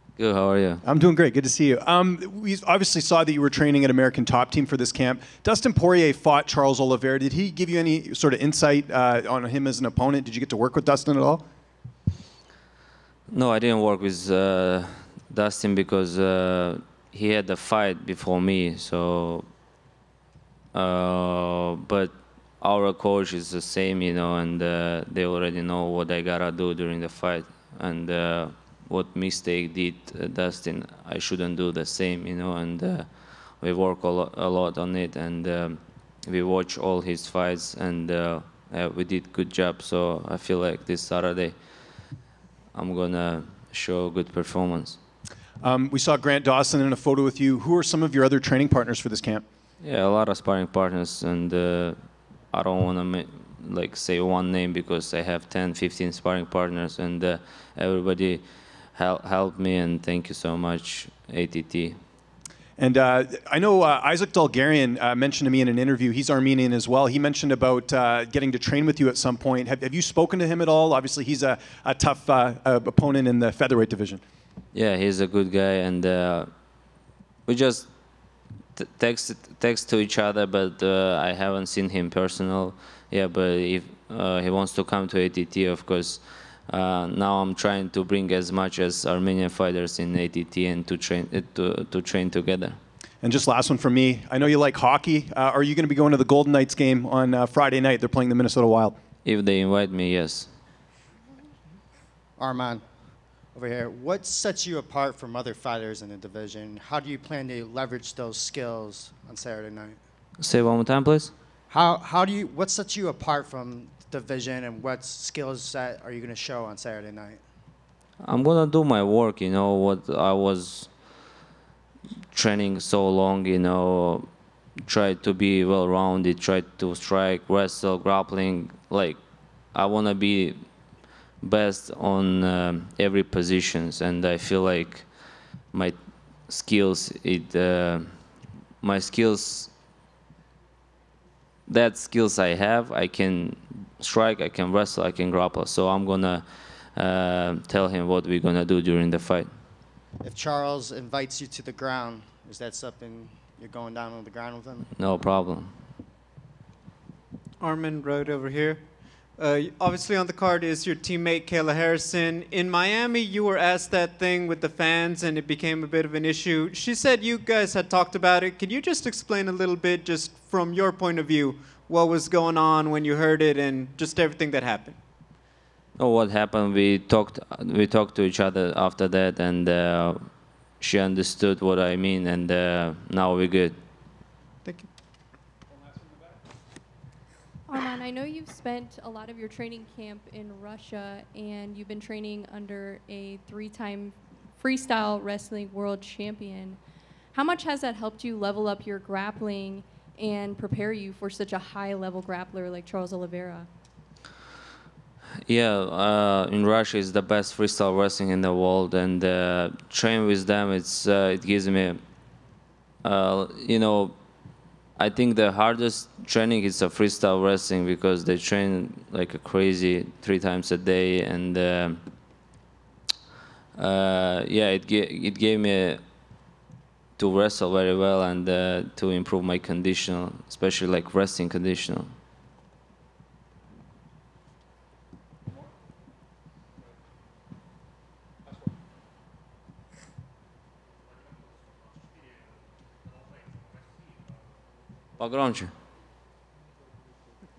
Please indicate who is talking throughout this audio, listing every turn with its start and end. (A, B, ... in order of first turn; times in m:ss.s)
0:00.2-0:00.8 A
0:00.8-0:11.4 B
0:13.3-0:19.4 A
0:20.7-0:41.5 A
0:42.7-0:45.0 A
0:45.6-0:49.4 B
0:49.8-0:52.0 A
0:52.5-1:02.0 A
1:02.8-1:14.2 B
1:14.7-1:16.5 A
1:17.5-1:17.9 A
1:18.8-1:32.8 A
1:33.2-1:38.9 B
1:39.2-1:40.5 A
1:42.4-1:42.8 C
1:43.5-1:50.0 C
1:50.4-1:51.3 A
1:51.7-1:57.4 C
1:58.2-2:00.9 A
2:02.3-2:04.3 A
2:04.8-2:09.2 A
2:09.7-2:10.6 A
2:11.4-2:15.1 A
2:16.5-2:18.1 A
2:18.8-2:19.7 A
2:21.7-2:29.5 A
2:30.2-2:34.9 C
2:35.0-2:35.7 A
2:37.6-2:38.8 D
2:39.4-2:55.0 D
2:56.0-3:00.2 A
3:00.8-3:03.8 A
3:07.7-3:16.8 E
3:17.3-3:23.7 E
3:25.5-3:32.0 A
3:33.0-3:34.1 A
3:35.0-3:42.0 A
3:43.8-3:46.0 A
3:47.2-3:52.1 A
4:05.2-4:05.7 A